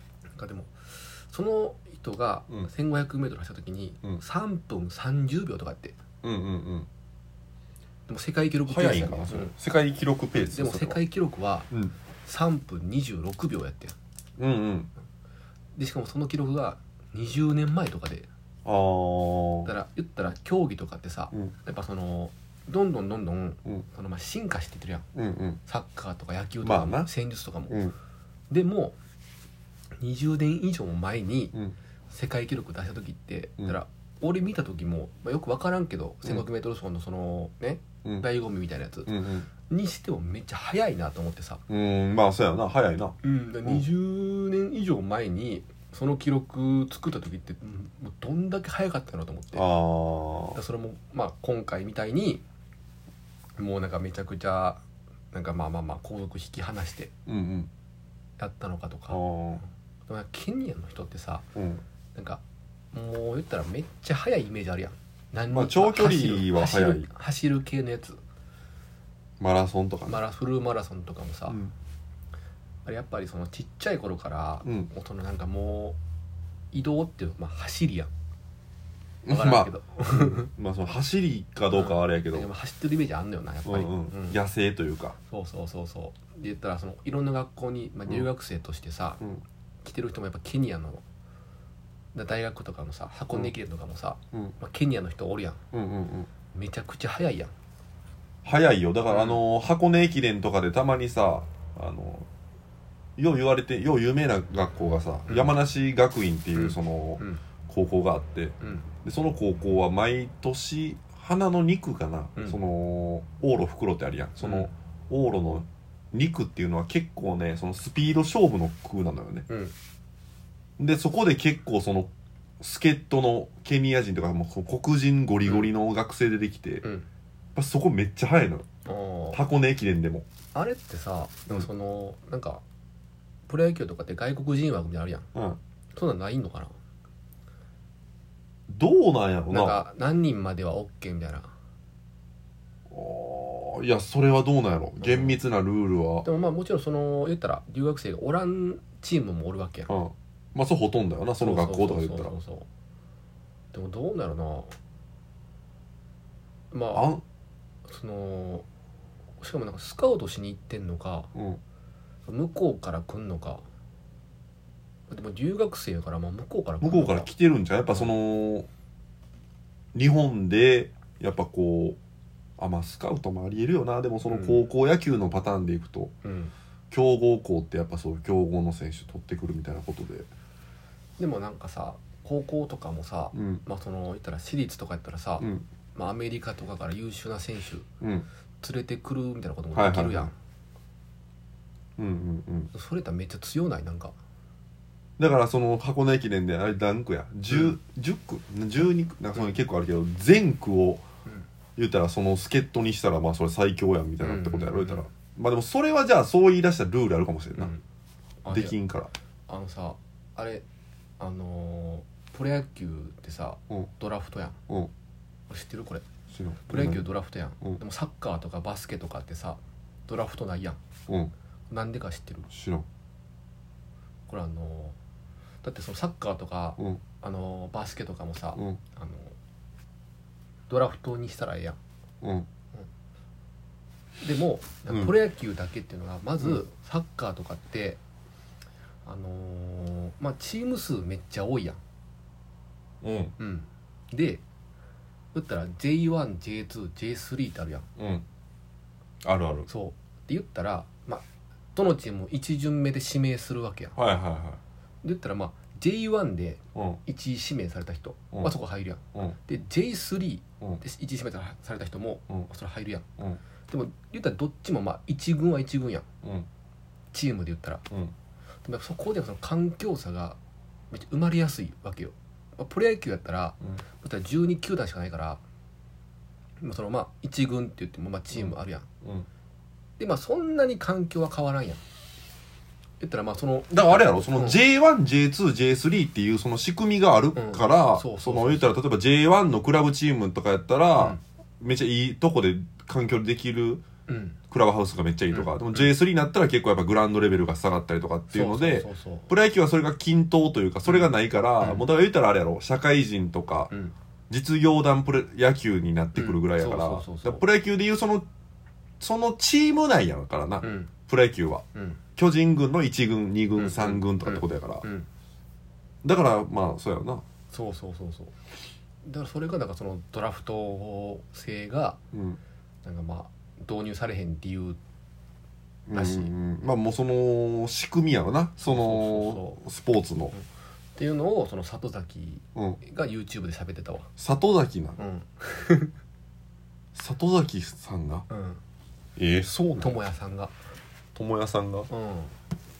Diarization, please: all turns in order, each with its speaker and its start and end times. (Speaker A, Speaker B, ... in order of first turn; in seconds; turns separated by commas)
Speaker A: 0.3-6.0, Speaker B: 6.2-6.9, Speaker A: 8.1-9.5, Speaker B: 8.7-11.0, Speaker A: 10.3-11.7, Speaker A: 12.2-13.9, Speaker B: 14.4-14.9, Speaker A: 15.7-18.3, Speaker B: 18.6-19.7, Speaker A: 19.6-25.1, Speaker B: 25.1-25.6, Speaker A: 25.6-27.8, Speaker B: 26.6-27.1, Speaker B: 27.7-27.9, Speaker A: 28.5-29.0, Speaker A: 30.0-31.5, Speaker A: 32.1-41.6, Speaker B: 39.1-39.5, Speaker B: 41.7-43.9, Speaker A: 43.2-49.6, Speaker B: 49.5-50.6, Speaker A: 50.5-52.4, Speaker A: 53.6-57.1, Speaker B: 57.2-57.7, Speaker A: 58.4-59.2, Speaker B: 59.1-59.6, Speaker A: 60.1-61.4, Speaker B: 61.5-61.8, Speaker A: 62.1-62.4, Speaker A: 62.9-68.2, Speaker B: 65.5-67.1, Speaker B: 69.4-70.2, Speaker A: 70.1-71.6, Speaker A: 72.8-76.0, Speaker B: 74.6-74.9, Speaker A: 76.7-78.1, Speaker B: 79.2-82.5, Speaker A: 79.3-80.5, Speaker A: 81.7-84.4, Speaker B: 83.6-85.2, Speaker A: 85.3-89.2, Speaker A: 89.8-91.0, Speaker A: 92.1-95.6, Speaker B: 95.7-96.3, Speaker A: 96.5-97.5, Speaker B: 98.4-102.3, Speaker A: 99.1-99.4, Speaker B: 103.2-119.5, Speaker A: 105.3-105.5, Speaker A: 106.5-107.4, Speaker A: 108.6-108.9, Speaker A: 114.4-114.7, Speaker A: 119.5-119.7, Speaker B: 120.8-126.8, Speaker A: 125.4-125.7, Speaker A: 126.8-127.1, Speaker B: 127.5-128.7, Speaker A: 128.8-129.4, Speaker B: 129.3-130.2, Speaker A: 130.5-132.6, Speaker A: 133.5-135.3, Speaker A: 135.9-136.7, Speaker B: 138.7-139.8, Speaker A: 139.5-141.5, Speaker B: 142.9-146.2, Speaker A: 145.0-145.4, Speaker A: 146.2-149.9, Speaker B: 149.9-152.3, Speaker A: 151.4-152.7, Speaker A: 153.7-154.7, Speaker A: 156.7-157.1, Speaker B: 156.9-157.2, Speaker A: 157.9-158.7, Speaker A: 159.4-161.3, Speaker B: 161.3-161.6, Speaker A: 162.2-163.6, Speaker A: 165.1-167.3, Speaker B: 166.8-168.7, Speaker B: 169.9-172.0, Speaker B: 172.6-176.1, Speaker A: 174.2-174.6, Speaker A: 176.2-176.5, Speaker B: 176.9-180.3, Speaker A: 181.2-187.9, Speaker B: 183.3-183.6, Speaker B: 185.4-185.7, Speaker B: 188.0-188.2, Speaker A: 188.6-190.3, Speaker B: 189.7-190.3, Speaker B: 192.0-192.7, Speaker A: 192.7-194.1, Speaker B: 195.2-201.0, Speaker A: 197.5-197.8, Speaker B: 201.8-207.7, Speaker A: 204.2-205.1, Speaker A: 207.6-207.8, Speaker A: 208.4-208.7, Speaker B: 208.5-209.1, Speaker A: 209.5-210.6, Speaker A: 211.2-214.6, Speaker A: 215.5-216.0, Speaker B: 216.3-217.1, Speaker A: 216.7-220.8, Speaker A: 221.7-222.5, Speaker B: 222.5-222.8, Speaker A: 224.3-224.9, Speaker A: 225.6-229.3, Speaker A: 230.7-231.8, Speaker B: 232.2-232.5, Speaker A: 234.2-238.0, Speaker B: 234.9-235.1, Speaker A: 239.0-241.8, Speaker B: 243.0-243.3, Speaker A: 243.4-244.4, Speaker A: 245.3-247.9, Speaker B: 248.0-248.2, Speaker B: 249.2-249.7, Speaker A: 249.7-253.9, Speaker B: 253.9-254.6, Speaker A: 255.0-263.1, Speaker B: 256.7-257.0, Speaker A: 263.7-266.1, Speaker B: 266.2-266.5, Speaker A: 267.1-267.8, Speaker A: 268.6-270.4, Speaker A: 270.9-275.4, Speaker A: 276.6-278.9, Speaker B: 278.3-279.3, Speaker A: 280.0-281.8, Speaker A: 283.0-284.6, Speaker B: 283.7-293.8, Speaker A: 287.4-288.7, Speaker A: 294.1-294.4, Speaker B: 294.5-303.7, Speaker A: 295.3-295.9, Speaker A: 298.3-299.2, Speaker A: 300.9-301.8, Speaker B: 304.3-308.3, Speaker A: 306.1-307.4, Speaker B: 309.0-311.6, Speaker A: 310.6-310.9, Speaker A: 311.7-312.0, Speaker B: 312.2-314.8, Speaker A: 313.6-315.1, Speaker B: 316.0-317.2, Speaker A: 317.5-318.4, Speaker A: 319.0-322.0, Speaker B: 322.1-322.4, Speaker A: 322.8-324.8, Speaker B: 325.9-330.3, Speaker A: 325.9-326.3, Speaker A: 328.6-329.6, Speaker A: 330.3-334.1, Speaker B: 332.5-332.8, Speaker B: 334.2-335.0, Speaker A: 335.0-335.9, Speaker B: 336.9-338.2, Speaker A: 338.3-338.6, Speaker B: 339.2-340.0, Speaker A: 339.8-340.5, Speaker B: 341.1-341.9, Speaker A: 341.9-342.3